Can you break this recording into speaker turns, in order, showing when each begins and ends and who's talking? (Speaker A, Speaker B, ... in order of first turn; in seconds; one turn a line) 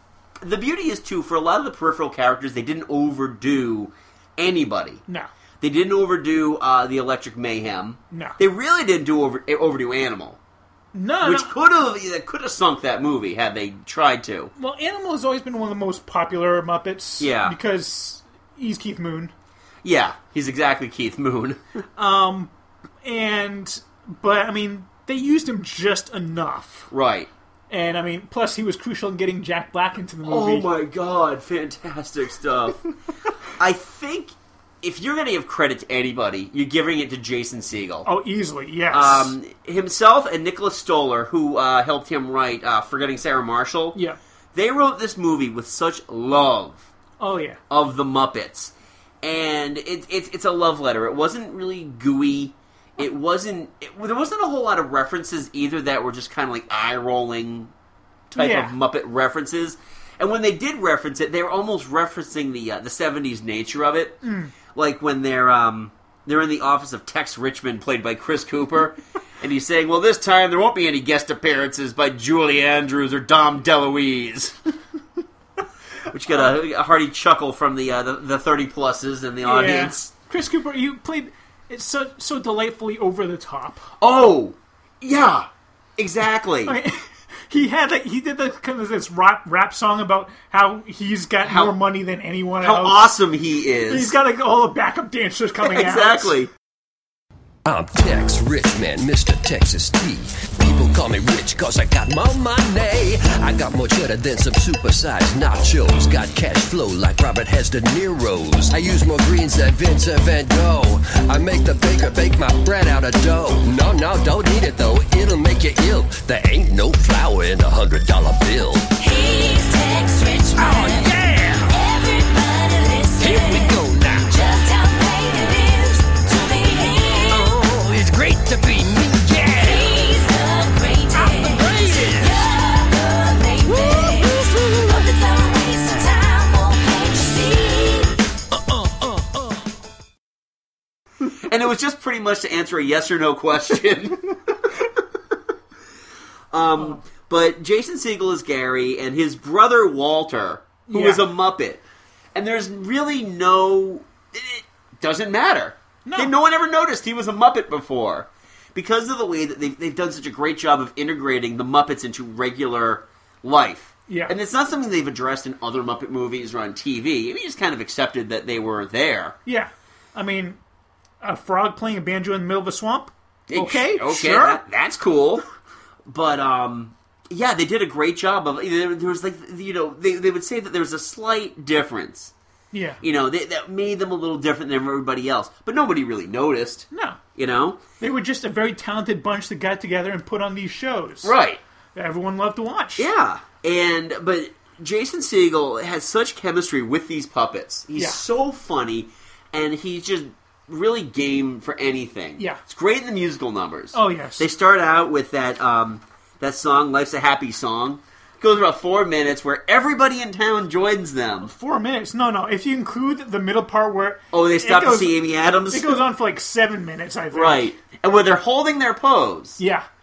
Speaker A: 0.4-5.0
Speaker A: 5.6-10.4
Speaker B: 8.1-8.4
Speaker B: 10.9-11.6
Speaker A: 11.2-14.5
Speaker B: 14.6-19.3
Speaker A: 17.2-17.6
Speaker A: 19.8-21.6
Speaker B: 22.0-22.5
Speaker B: 23.0-26.9
Speaker A: 26.9-27.3
Speaker B: 27.7-30.7
Speaker A: 30.2-32.8
Speaker A: 33.6-38.1
Speaker B: 38.0-39.3
Speaker A: 38.9-44.0
Speaker A: 44.5-46.9
Speaker B: 47.2-47.6
Speaker A: 47.7-57.7
Speaker A: 58.3-74.6
Speaker B: 58.4-58.8
Speaker B: 64.2-64.5
Speaker A: 76.1-80.1
Speaker B: 79.4-83.9
Speaker A: 84.0-86.8
Speaker B: 86.7-93.1
Speaker A: 91.4-91.8
Speaker A: 92.6-94.2
Speaker B: 93.9-96.3
Speaker A: 95.6-96.5
Speaker C: 97.7-119.0
Speaker D: 118.9-127.5
Speaker C: 120.5-121.7
Speaker C: 123.2-124.6
Speaker C: 127.3-130.0
Speaker D: 129.6-138.2
Speaker C: 131.2-132.5
Speaker C: 133.7-134.7
Speaker C: 138.7-139.4
Speaker A: 141.5-144.4
Speaker A: 146.5-151.8
Speaker B: 146.8-147.0
Speaker B: 150.9-151.2
Speaker A: 152.3-169.4
Speaker B: 156.1-156.3
Speaker B: 164.1-164.3
Speaker B: 169.5-170.6
Speaker B: 171.2-174.6
Speaker A: 173.5-175.4
Speaker A: 176.1-182.3
Speaker B: 182.7-183.0
Speaker A: 183.0-187.8
Speaker B: 186.9-187.2
Speaker B: 188.0-191.3
Speaker A: 191.2-191.6
Speaker B: 191.9-193.1
Speaker A: 193.0-211.5
Speaker B: 198.0-198.2
Speaker B: 203.9-204.5
Speaker B: 211.4-215.2
Speaker A: 214.3-216.0
Speaker B: 215.7-217.7
Speaker A: 217.3-219.6
Speaker B: 219.6-219.9